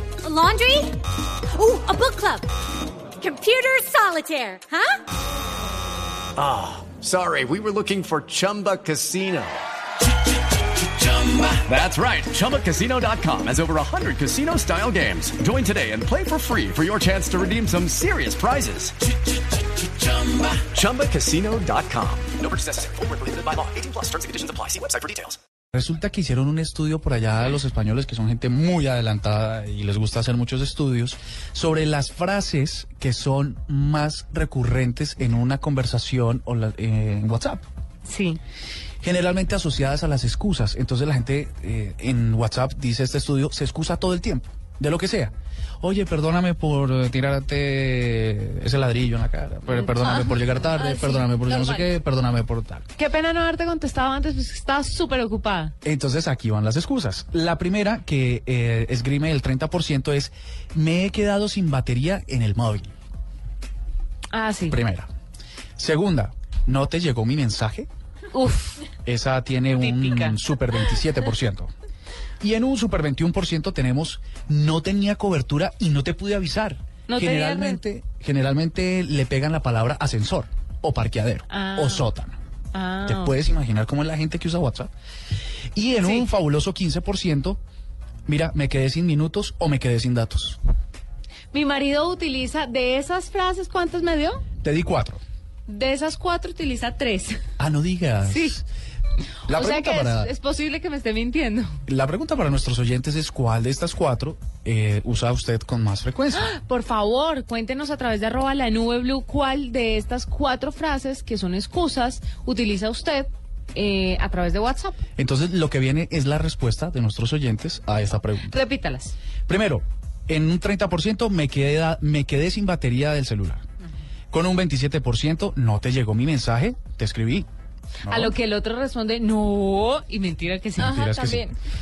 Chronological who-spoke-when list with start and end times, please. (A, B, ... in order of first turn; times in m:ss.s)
0:00.2-0:02.5 A
0:03.2-0:05.0 A
0:06.4-0:09.6 B
0:11.0-0:18.9 B
0:20.0-0:25.4 B
0:25.7-0:37.6 C
0:38.0-0:38.4 D
0:39.0-0:52.8 C
0:49.7-0:51.9 D
0:53.0-0:55.7 D
0:55.8-1:02.9 C
1:04.3-1:04.8 D
1:04.7-1:05.1 C
1:05.8-1:07.9 C
1:08.3-1:08.9 D
1:09.0-1:11.7 C
1:09.8-1:10.4 D
1:12.4-1:22.4 C
1:17.1-1:17.8 D
1:21.5-1:22.1 D
1:22.7-1:23.3 D
1:23.0-1:24.9 C
1:25.7-1:27.6 C
1:26.0-1:26.3 D
1:28.3-1:30.6 C
1:31.5-1:34.4 D
1:34.6-1:35.2 C
1:35.7-1:37.4 D
1:37.6-1:38.6 C
1:38.2-1:38.6 D
1:39.5-1:40.3 C
1:39.5-1:41.8 D
1:41.9-1:46.5 C
1:46.3-1:55.0 D
1:55.2-1:58.6 C
1:58.5-1:59.1 D
1:59.5-2:03.6 C
2:04.3-2:07.5 C
2:08.0-2:08.4 C
2:08.0-2:11.6 D
2:10.8-2:11.5 C